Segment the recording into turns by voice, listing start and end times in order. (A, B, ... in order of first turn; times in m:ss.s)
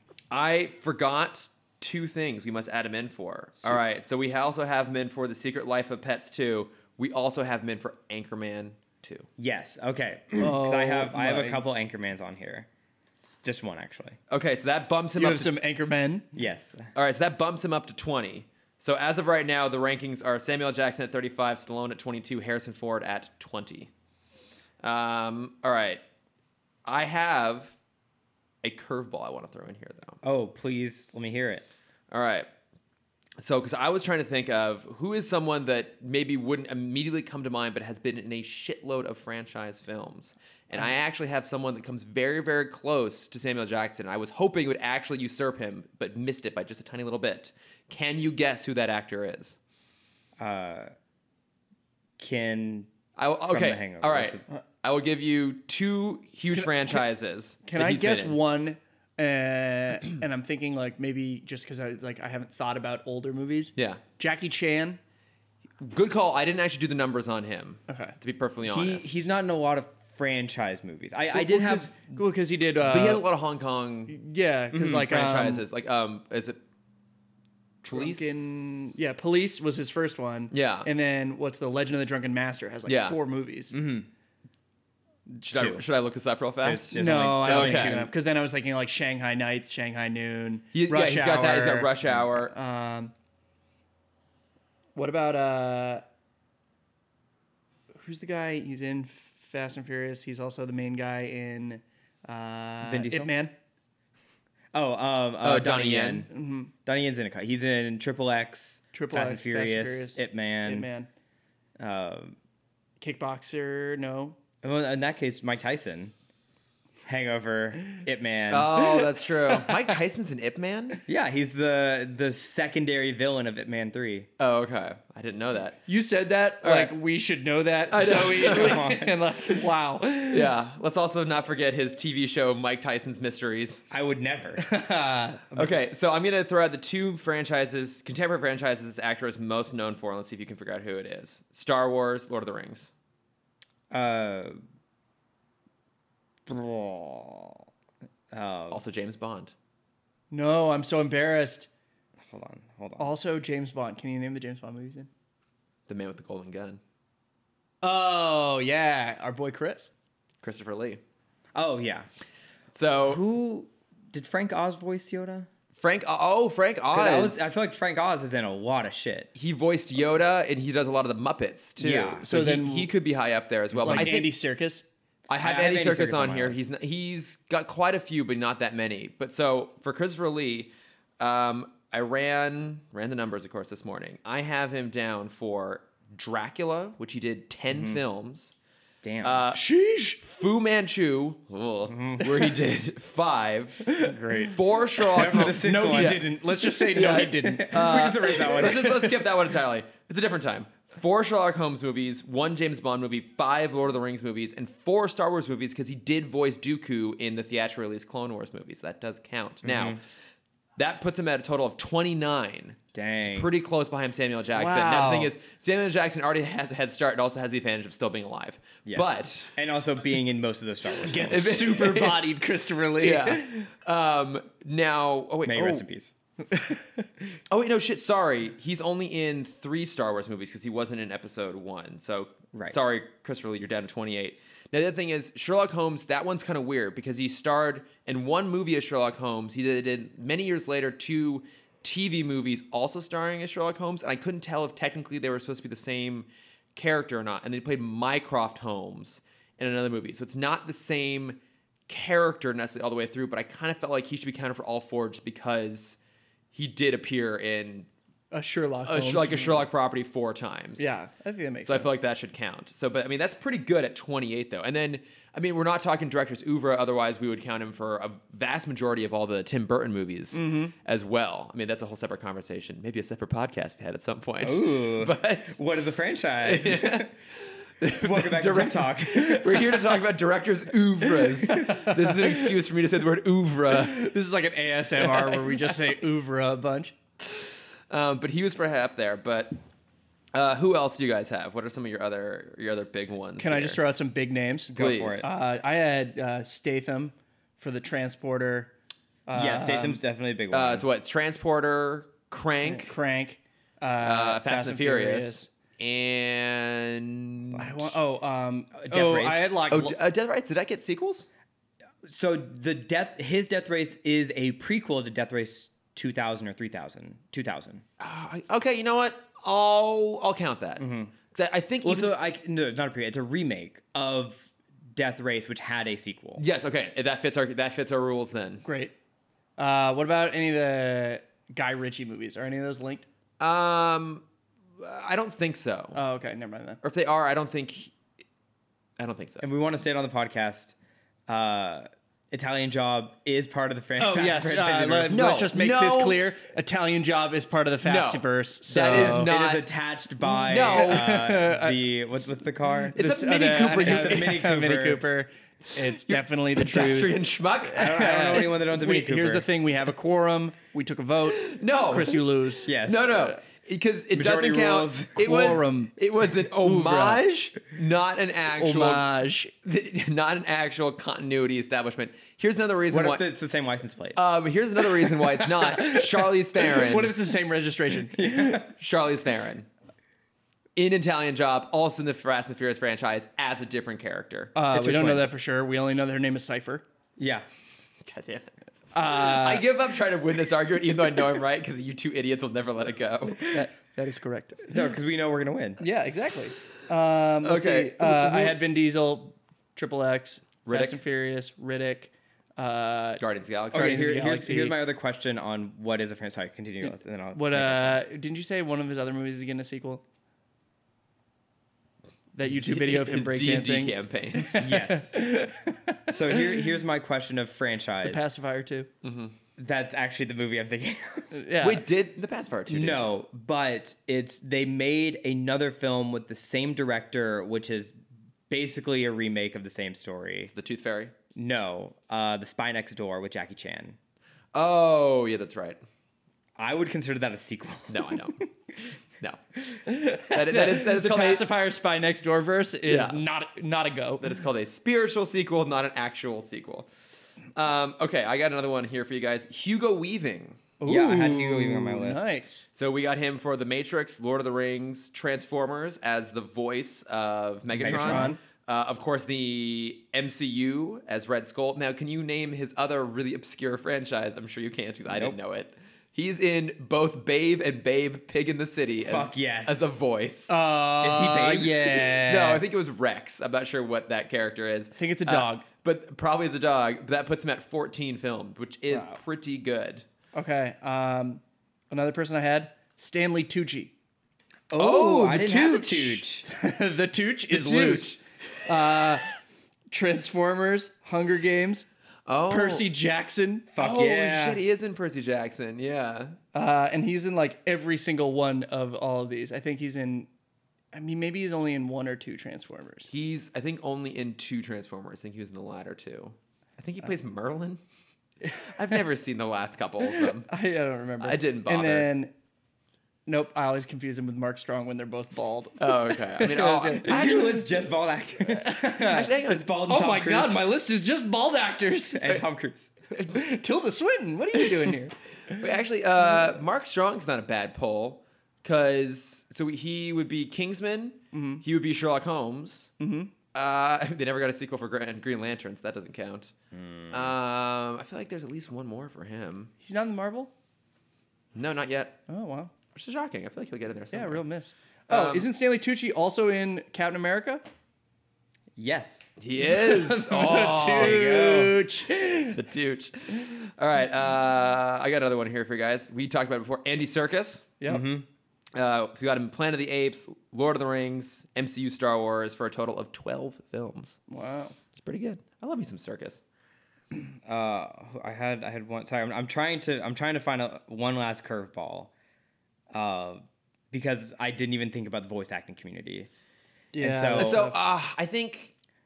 0:00.3-0:09.3 A
0:09.4-0:12.7 B
0:10.4-0:11.6 C
0:13.4-0:14.2 B
0:14.3-0:15.5 A
0:15.2-0:16.3 C
0:16.3-0:16.9 B
0:17.0-0:23.9 A
0:24.8-0:26.0 A
0:26.8-0:27.8 A
0:28.6-0:30.2 A
0:30.2-0:31.7 B
0:32.1-0:32.5 A
0:33.4-0:49.6 A
0:50.4-0:50.9 B
0:52.2-0:52.9 B
0:53.2-0:58.4 A
0:53.5-0:54.5 B
0:56.5-0:57.0 C
0:57.6-1:05.0 C
1:03.8-1:04.0 A
1:05.8-1:09.2 A
1:07.9-1:08.2 C
1:08.6-1:12.2 B
1:11.3-1:13.2 C
1:12.8-1:14.2 A
1:14.1-1:15.6 C
1:14.7-1:15.0 B
1:14.8-1:16.6 A
1:17.8-1:18.9 A
1:17.9-1:23.8 C
1:20.5-1:20.9 A
1:22.9-1:23.2 A
1:23.7-1:24.1 B
1:25.3-1:25.8 B
1:25.4-1:28.1 A
1:26.6-1:28.1 B
1:27.0-1:33.1 C
1:30.7-1:32.5 A
1:35.0-1:36.0 C
1:37.9-1:43.5 C
1:42.8-1:43.3 B
1:44.7-1:46.3 B
1:45.4-1:46.3 A
1:46.3-1:46.7 C
1:46.8-1:50.9 B
1:48.9-1:51.1 C
1:51.8-1:52.4 B
1:53.0-1:54.4 C
1:54.6-1:56.1 B
1:57.1-1:58.9 B
1:58.5-2:01.0 A
2:01.1-2:04.3 B
2:04.4-2:05.8 A
2:05.9-2:10.5 C
2:06.6-2:06.9 A
2:07.9-2:09.0 A
2:08.4-2:09.2 B
2:10.3-2:13.8 A
2:13.9-2:14.6 B
2:14.6-2:15.8 C
2:15.6-2:22.9 A
2:23.9-2:24.6 B
2:26.5-2:27.6 B
2:28.3-2:28.8 B
2:28.7-2:29.5 A
2:30.3-2:31.7 C
2:32.2-2:33.1 B
2:33.0-2:35.1 C
2:35.9-2:36.8 A
2:37.8-2:39.9 C
2:40.4-2:41.0 A
2:41.6-2:42.1 B
2:42.7-2:43.2 A
2:43.0-2:45.5 B
2:45.8-2:47.5 A
2:46.9-2:49.3 B
2:49.4-2:54.3 A
2:51.8-2:52.3 B
2:52.2-2:52.9 C
2:53.8-2:54.2 B
2:53.8-2:54.9 C
2:55.3-3:08.6 A
2:55.4-2:56.6 B
3:07.7-3:08.0 B
3:09.0-3:09.4 B
3:09.2-3:09.6 A
3:09.5-3:10.2 C
3:10.2-3:30.0 A
3:11.9-3:12.6 B
3:13.9-3:14.5 C
3:14.0-3:14.6 B
3:15.1-3:16.3 B
3:15.2-3:17.8 C
3:17.0-3:19.2 B
3:29.6-3:30.0 B
3:30.8-3:39.5 A
3:32.9-3:33.5 B
3:34.6-3:35.3 C
3:38.9-3:41.7 B
3:41.0-3:43.6 C
3:41.3-3:42.4 A
3:43.0-3:45.8 A
3:45.4-3:46.1 B
3:46.5-3:46.8 C
3:47.5-4:16.0 A
3:52.5-3:52.8 B
4:16.5-4:17.9 A
4:18.3-4:19.6 C
4:18.9-4:20.9 A
4:20.8-4:21.9 C
4:21.6-4:35.6 A
4:30.3-4:30.7 C
4:34.4-4:37.1 B
4:36.4-4:37.1 A
4:37.8-4:44.2 A
4:38.0-4:40.0 B
4:41.4-4:42.5 C
4:43.7-4:47.0 C
4:45.0-4:45.9 A
4:47.2-4:49.6 A
4:50.3-4:53.8 A
4:53.4-4:58.7 C
4:54.7-4:55.3 B
4:54.8-4:55.2 A
4:59.3-5:00.0 C
4:59.3-5:00.9 B
5:00.5-5:03.0 A
5:02.6-5:05.5 C
5:04.0-5:07.9 A
5:07.6-5:10.0 C
5:08.8-5:09.6 B
5:09.7-5:11.3 A
5:12.0-5:17.8 B
5:18.0-5:22.1 A
5:20.8-5:21.1 B
5:21.8-5:26.4 B
5:26.4-5:28.6 A
5:28.6-5:28.9 C
5:29.6-5:33.1 C
5:33.4-5:34.2 A
5:34.8-5:36.0 A
5:36.0-5:36.8 C
5:36.8-5:37.9 A
5:39.0-5:39.4 A
5:39.4-5:40.7 B
5:41.3-5:45.3 B
5:44.0-5:49.3 C
5:45.1-5:46.2 A
5:47.8-5:49.6 A
5:48.9-5:53.0 B
5:50.3-5:52.3 C
5:50.4-5:51.1 A
5:52.9-6:02.7 C
5:53.0-5:54.4 A
5:53.7-5:55.0 B
5:56.0-5:58.0 A
5:57.7-5:59.5 B
6:01.3-6:09.1 A
6:02.7-6:03.4 B
6:04.1-6:05.4 B
6:05.2-6:05.9 C
6:06.6-6:07.2 C
6:08.6-6:09.5 C
6:09.6-6:13.2 A
6:12.9-6:14.2 B
6:14.2-6:17.1 A
6:15.6-6:18.6 C
6:18.1-6:18.7 B
6:18.7-6:19.7 A
6:20.8-6:24.6 A
6:24.6-6:26.8 C
6:24.7-6:25.3 B
6:27.2-6:27.5 B
6:28.0-6:33.5 A
6:28.9-6:29.6 C
6:33.4-6:34.8 C
6:34.7-6:35.8 B
6:35.8-6:43.2 C
6:37.4-6:38.6 A
6:40.7-6:41.0 A
6:43.2-6:44.0 A
6:43.7-6:44.8 C
6:43.7-6:48.0 B
6:47.3-6:50.0 C
6:52.4-6:56.6 C
6:52.4-6:54.8 A
6:54.6-6:55.4 B
6:56.1-6:58.2 B
6:58.0-6:58.9 C
6:59.0-6:59.4 A
6:59.6-7:01.3 B
7:01.3-7:01.8 C
7:01.6-7:03.1 A
7:02.7-7:08.0 B
7:08.5-7:10.5 B
7:10.5-7:11.1 A
7:11.4-7:14.0 B
7:14.5-7:15.8 A
7:16.6-7:18.4 B
7:17.9-7:18.4 A
7:19.9-7:24.4 C
7:20.2-7:21.5 A
7:22.9-7:23.2 A
7:24.2-7:26.9 A
7:27.6-7:30.6 A
7:30.8-7:32.7 C
7:30.9-7:32.2 B
7:32.8-7:50.6 A
7:37.8-7:38.4 B
7:37.8-7:38.4 C
7:45.1-7:45.4 B
7:49.0-7:49.8 B
7:50.5-7:52.6 C
7:51.0-7:51.9 B
7:51.9-8:00.0 A
7:55.0-7:55.6 C
7:58.9-7:59.2 B
8:00.3-8:03.9 C
8:04.7-8:06.5 B
8:04.8-8:06.2 A
8:06.5-8:09.3 C
8:07.5-8:08.1 A
8:09.9-8:11.9 C
8:12.3-8:12.9 A
8:12.5-8:14.2 C
8:13.8-8:16.4 A
8:13.8-8:14.6 B
8:16.5-8:20.3 C
8:20.9-8:23.1 C
8:23.1-8:27.8 A
8:28.6-8:30.5 A
8:30.2-8:32.3 C
8:31.2-8:32.1 A
8:33.3-8:37.5 C
8:35.8-8:37.7 A
8:37.0-8:40.6 B
8:38.6-8:39.3 C
8:39.0-8:39.7 A
8:39.9-8:42.4 C
8:42.2-8:42.9 B
8:43.3-8:45.6 C
8:45.5-8:52.9 A
8:51.3-8:51.6 C
8:53.0-8:53.3 C
8:53.5-8:56.5 A
8:56.7-8:57.4 B
8:57.1-8:59.7 A
8:59.8-9:00.5 C
9:01.6-9:02.2 A
9:02.3-9:02.7 C
9:03.0-9:04.4 A
9:04.1-9:07.6 C
9:05.1-9:05.5 A
9:08.8-9:09.3 B
9:09.4-9:11.6 A
9:09.6-9:12.6 C
9:11.0-9:11.8 B
9:12.5-9:17.7 A
9:17.8-9:18.0 C
9:17.9-9:18.3 B
9:18.8-9:24.2 A
9:24.3-9:24.8 C
9:25.0-9:26.4 A
9:27.4-9:32.1 B
9:32.9-9:36.3 B
9:36.9-9:37.8 C
9:37.0-9:37.6 B
9:37.3-9:38.7 A